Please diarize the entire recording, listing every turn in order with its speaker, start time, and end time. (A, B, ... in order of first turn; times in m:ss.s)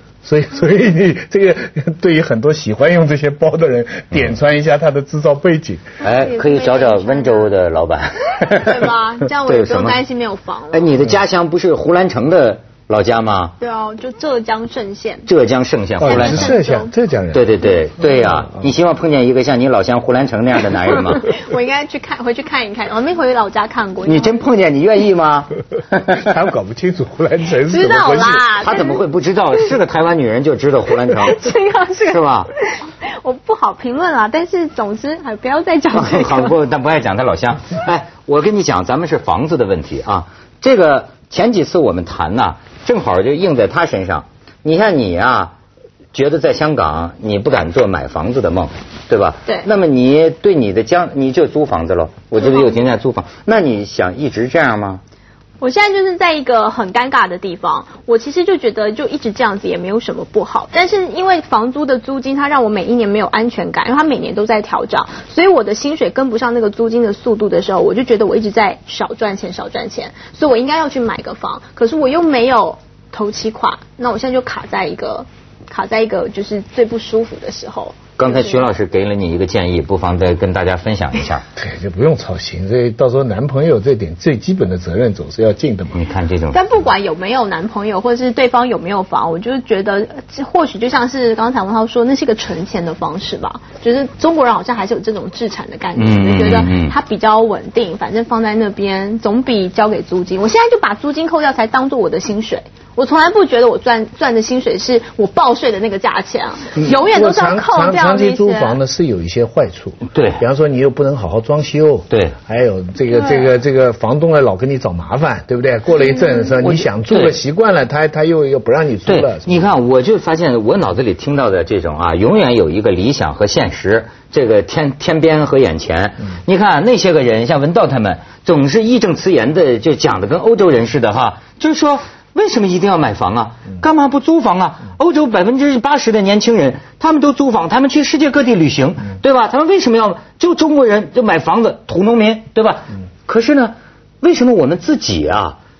0:00.2-0:05.8 A
0:06.0-0:10.0 B
0:06.0-0:07.5 C
0:08.5-0:11.0 C
0:10.7-0:13.5 B
0:13.6-0:15.2 C
0:15.2-0:16.6 B
0:16.0-0:17.5 A
0:16.0-0:16.9 C
0:17.3-0:21.2 B
0:21.2-0:24.4 C
0:24.0-0:26.2 B
0:26.2-0:28.5 A
0:27.6-0:29.0 C
0:28.6-0:31.4 B
0:31.1-0:36.6 C
0:32.0-0:32.5 B
0:35.9-0:45.5 B
0:46.1-0:55.0 B
0:52.4-0:52.7 C
0:55.6-1:18.6 C
1:18.2-1:21.4 B
1:21.6-1:26.0 A
1:25.9-1:26.6 B
1:26.5-1:48.8 C
1:36.0-1:36.9 B
1:46.8-1:59.7 A
1:50.1-1:50.4 B
1:52.1-1:52.4 B
1:53.1-1:53.4 C
1:56.0-1:56.5 C
1:56.6-1:57.4 B
1:59.0-2:25.6 B